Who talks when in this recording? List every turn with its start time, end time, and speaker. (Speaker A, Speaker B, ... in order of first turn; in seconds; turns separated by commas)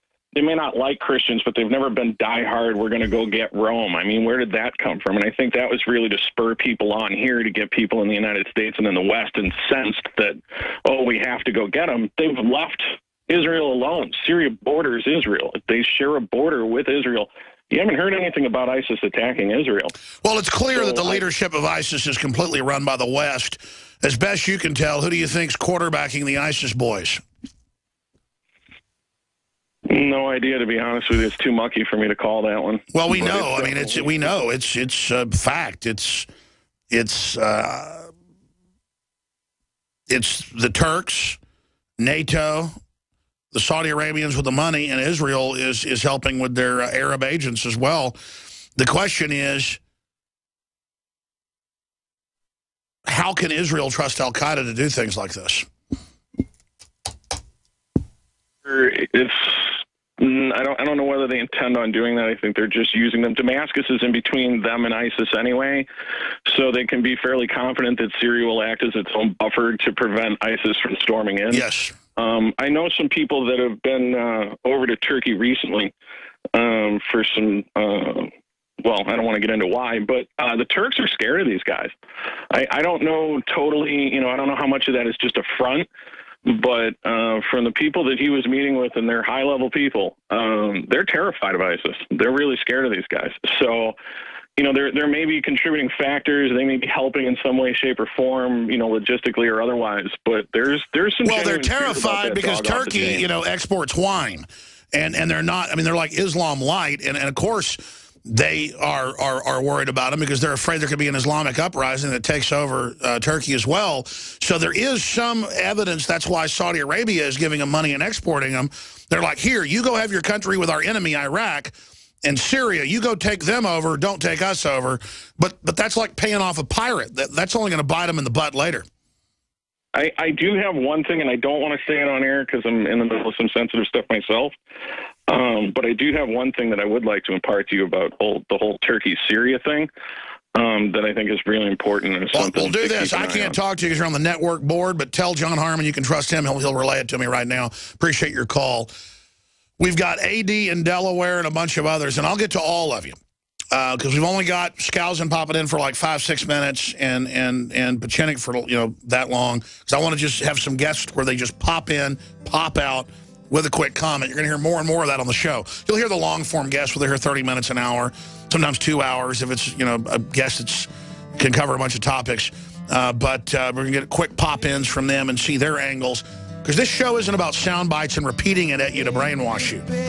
Speaker A: 0.3-19.9, Speaker B: 20.2-27.2, Speaker A: 20.8-21.2, Speaker A: 29.9-34.3, Speaker B: 32.9-36.3, Speaker B: 36.9-38.1, Speaker B: 40.1-41.4, Speaker B: 42.0-42.7, Speaker B: 43.5-48.2, Speaker B: 48.8-49.8, Speaker B: 53.1-55.7, Speaker A: 58.6-65.9, Speaker A: 66.5-75.9, Speaker B: 71.5-72.0, Speaker A: 76.5-78.3, Speaker A: 78.8-81.9, Speaker A: 82.5-85.9, Speaker A: 86.5-94.0, Speaker A: 94.6-103.3, Speaker B: 101.2-128.8, Speaker A: 129.9-134.6, Speaker A: 135.3-139.9, Speaker A: 140.5-143.6, Speaker B: 142.3-148.9, Speaker B: 149.8-153.2, Speaker B: 153.7-179.9